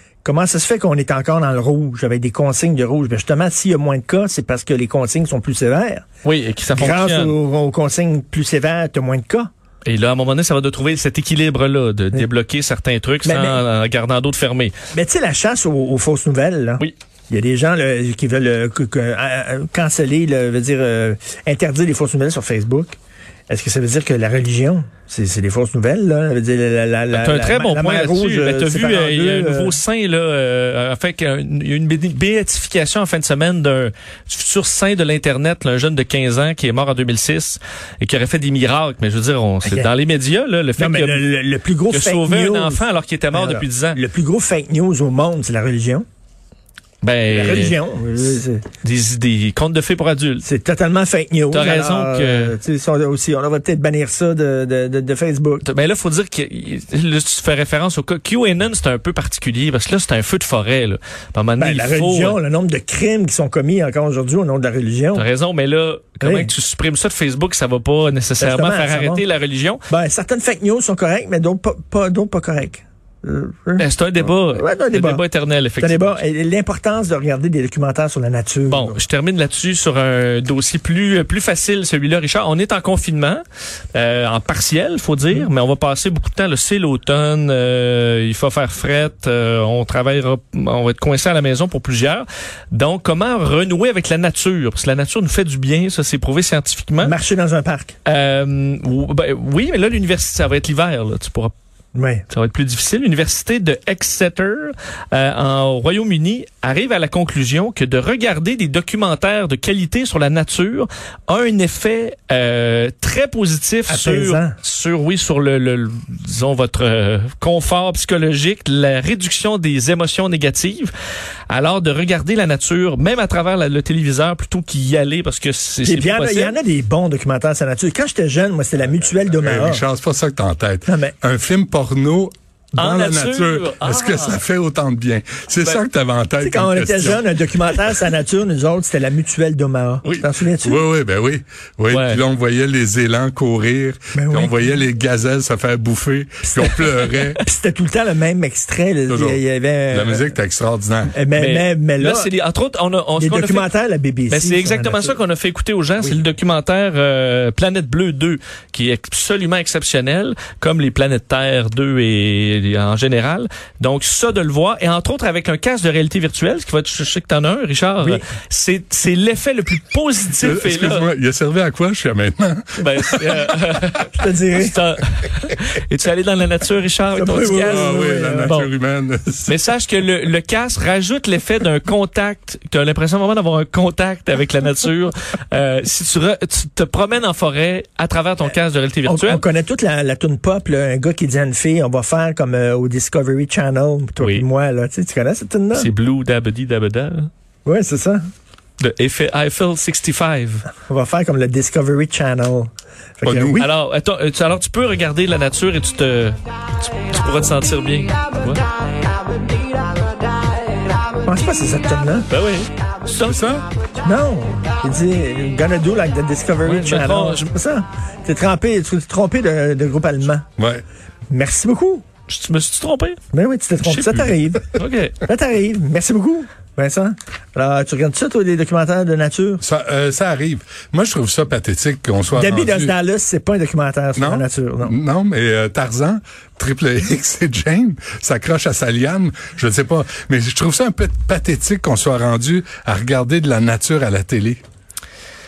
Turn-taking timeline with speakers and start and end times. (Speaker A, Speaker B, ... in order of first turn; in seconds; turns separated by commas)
Speaker A: 0.2-6.0, Speaker B: 6.2-7.3, Speaker A: 6.7-9.5, Speaker B: 9.8-14.7, Speaker A: 13.2-13.6, Speaker A: 14.9-23.0, Speaker A: 23.5-29.8, Speaker B: 27.1-41.3, Speaker A: 39.6-39.9, Speaker A: 40.8-46.1, Speaker B: 41.9-44.0, Speaker B: 47.0-47.8, Speaker A: 47.3-48.6, Speaker B: 48.8-50.5, Speaker A: 50.4-55.6, Speaker B: 51.5-52.6, Speaker B: 55.6-62.4, Speaker A: 61.6-65.2, Speaker B: 65.1-69.8, Speaker A: 66.2-66.5, Speaker A: 68.4-69.2, Speaker A: 69.9-75.2, Speaker B: 73.8-76.2, Speaker A: 75.8-79.0, Speaker B: 78.7-83.4, Speaker B: 83.9-97.2, Speaker A: 97.0-98.0, Speaker B: 98.1-101.5, Speaker A: 102.0-102.2, Speaker B: 102.3-120.9, Speaker A: 113.9-114.6, Speaker B: 121.5-126.5, Speaker A: 125.8-129.8, Speaker C: 129.3-137.2, Speaker A: 130.9-131.2, Speaker B: 132.8-134.4, Speaker A: 136.4-140.8, Speaker C: 140.6-147.4, Speaker B: 141.9-142.2, Speaker A: 144.2-144.5, Speaker A: 146.5-146.8, Speaker A: 147.4-150.3, Speaker C: 149.1-151.2, Speaker A: 151.1-152.3, Speaker B: 151.3-153.7, Speaker A: 153.2-155.2, Speaker B: 154.3-171.1, Speaker C: 170.4-173.7, Speaker B: 172.8-178.7, Speaker A: 174.1-174.8, Speaker A: 177.1-178.5, Speaker C: 177.7-179.6, Speaker B: 179.5-189.4, Speaker A: 189.1-195.9, Speaker B: 194.2-194.4, Speaker B: 195.7-197.3, Speaker A: 197.7-198.2, Speaker B: 198.8-200.7, Speaker A: 200.9-203.7, Speaker C: 203.2-203.6, Speaker B: 203.6-208.7, Speaker A: 211.2-212.3, Speaker B: 212.3-213.4, Speaker C: 213.2-213.7, Speaker A: 214.0-220.4, Speaker B: 216.6-217.5, Speaker C: 220.6-220.8, Speaker A: 221.3-222.0, Speaker B: 222.3-223.2, Speaker A: 223.3-224.7, Speaker B: 223.8-225.2, Speaker A: 225.2-229.6, Speaker C: 229.6-232.9, Speaker A: 232.4-234.9, Speaker C: 234.2-244.6